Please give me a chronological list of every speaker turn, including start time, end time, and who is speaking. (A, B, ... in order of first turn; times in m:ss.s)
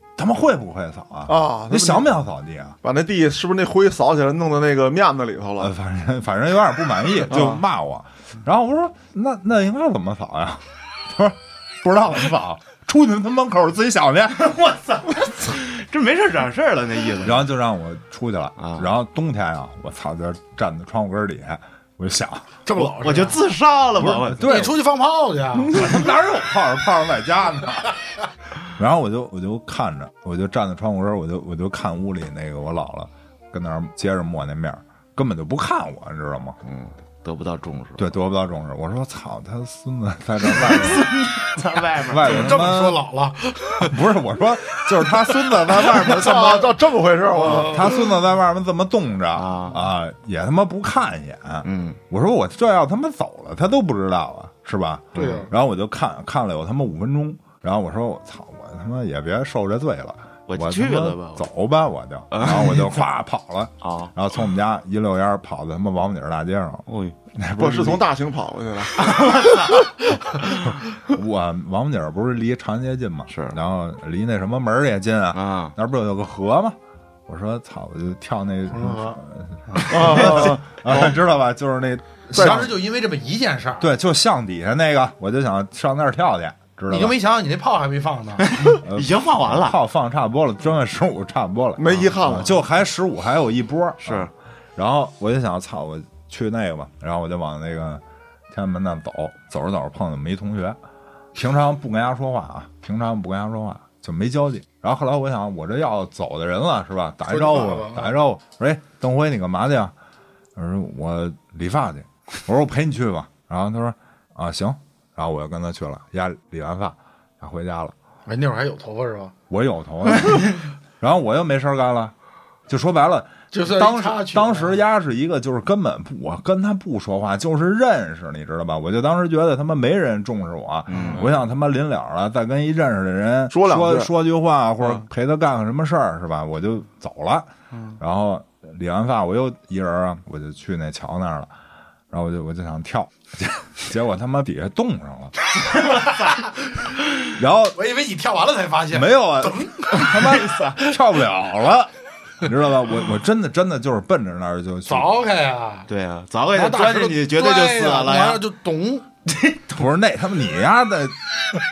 0:00.2-0:02.8 A
0:01.3-0:02.1 B
0:02.8-0:05.7 B
0:05.6-0:15.1 A
0:07.3-0:07.6 B
0:14.6-0:17.4 C
0:17.2-0:22.8 A
0:18.6-0:18.9 C
0:22.7-0:23.4 D
0:22.8-0:24.7 C
0:24.0-0:24.8 A
0:24.4-0:25.8 D
0:25.7-0:28.0 A
0:28.8-0:36.6 A
0:36.6-0:38.1 C
0:38.0-0:41.1 A
0:40.4-0:42.6 C
0:42.1-0:43.0 A
0:42.2-0:44.0 D
0:43.8-0:46.8 A
0:46.1-0:47.9 B
0:47.4-1:08.1 A
0:49.4-0:49.8 C
0:51.6-0:52.0 C
0:55.2-0:55.5 C
0:55.2-0:55.5 D
1:00.5-1:01.5 C
1:02.3-1:03.0 C
1:03.8-1:04.1 C
1:06.9-1:07.2 C
1:07.6-1:09.4 B
1:09.0-1:09.9 C
1:11.0-1:22.7 A
1:13.3-1:13.6 C
1:15.3-1:15.8 C
1:18.7-1:19.2 D
1:19.7-1:20.0 D
1:19.9-1:21.2 B
1:22.4-1:23.9 D
1:22.4-1:22.7 B
1:23.8-1:27.2 A
1:26.9-1:28.5 D
1:28.4-1:29.8 C
1:28.8-1:40.8 A
1:31.8-1:32.6 B
1:34.0-1:34.3 C
1:41.4-1:49.9 A
1:47.3-1:48.1 D
1:50.6-1:58.0 A
1:58.3-1:59.3 D
1:59.5-2:02.1 A
2:00.2-2:00.5 C
2:02.7-2:21.5 A
2:03.5-2:04.8 D
2:10.9-2:11.3 C
2:13.5-2:14.1 B
2:17.7-2:18.0 D
2:22.1-2:25.4 A
2:25.8-2:26.2 D
2:27.4-2:27.8 A
2:27.8-2:30.6 D
2:28.9-2:35.2 A
2:30.3-2:30.7 C
2:34.9-2:35.9 D
2:35.9-2:38.4 C
2:36.5-2:39.1 D
2:39.4-2:39.8 C
2:39.8-2:41.2 A